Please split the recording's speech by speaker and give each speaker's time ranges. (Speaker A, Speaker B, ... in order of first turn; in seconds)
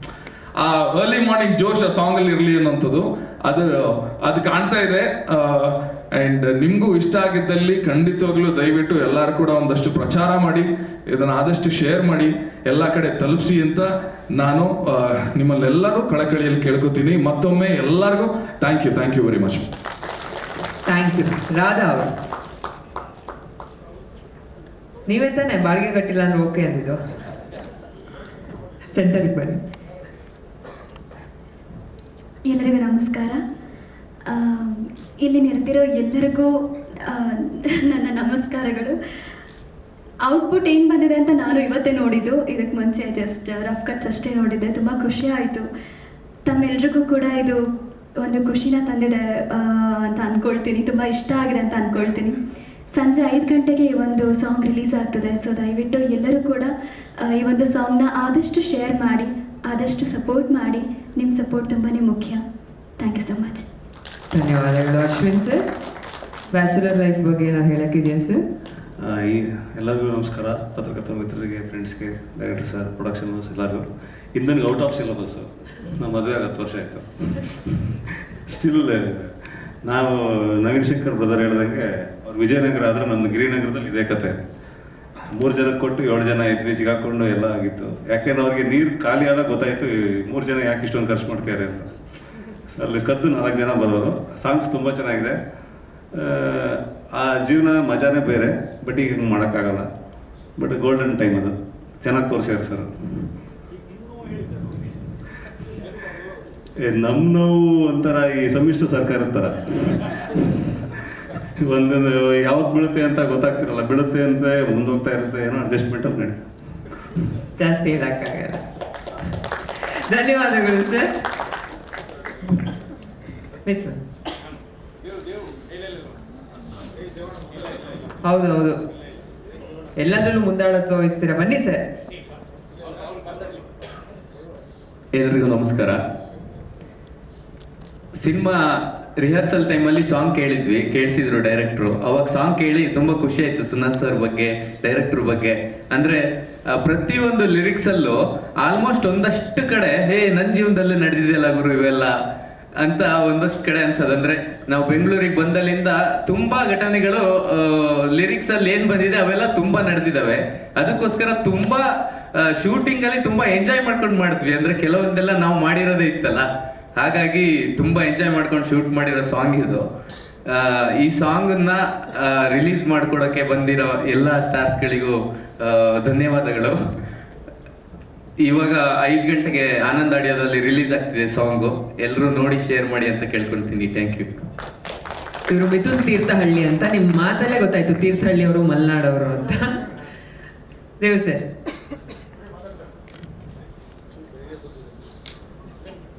Speaker A: 0.6-19.6
Speaker B: 20.9-22.1, 25.1-27.0, 28.9-29.6, 64.3-65.6, 66.5-68.4, 117.6-118.6, 120.1-121.1, 123.6-124.0, 128.2-128.8, 130.0-131.8, 185.5-189.8, 191.0-191.4
Speaker C: 32.5-33.4, 34.3-39.0, 40.3-45.6, 46.5-47.6, 48.2-52.4, 52.9-56.7, 57.3-62.4, 63.0-63.7
Speaker D: 69.0-77.5, 78.5-84.4, 85.3-91.9, 92.7-95.4, 96.1-99.9, 100.6-102.9, 106.8-110.3, 111.6-116.4
Speaker E: 135.1-136.0, 138.2-152.1, 152.8-169.8, 170.5-176.8, 178.4-184.3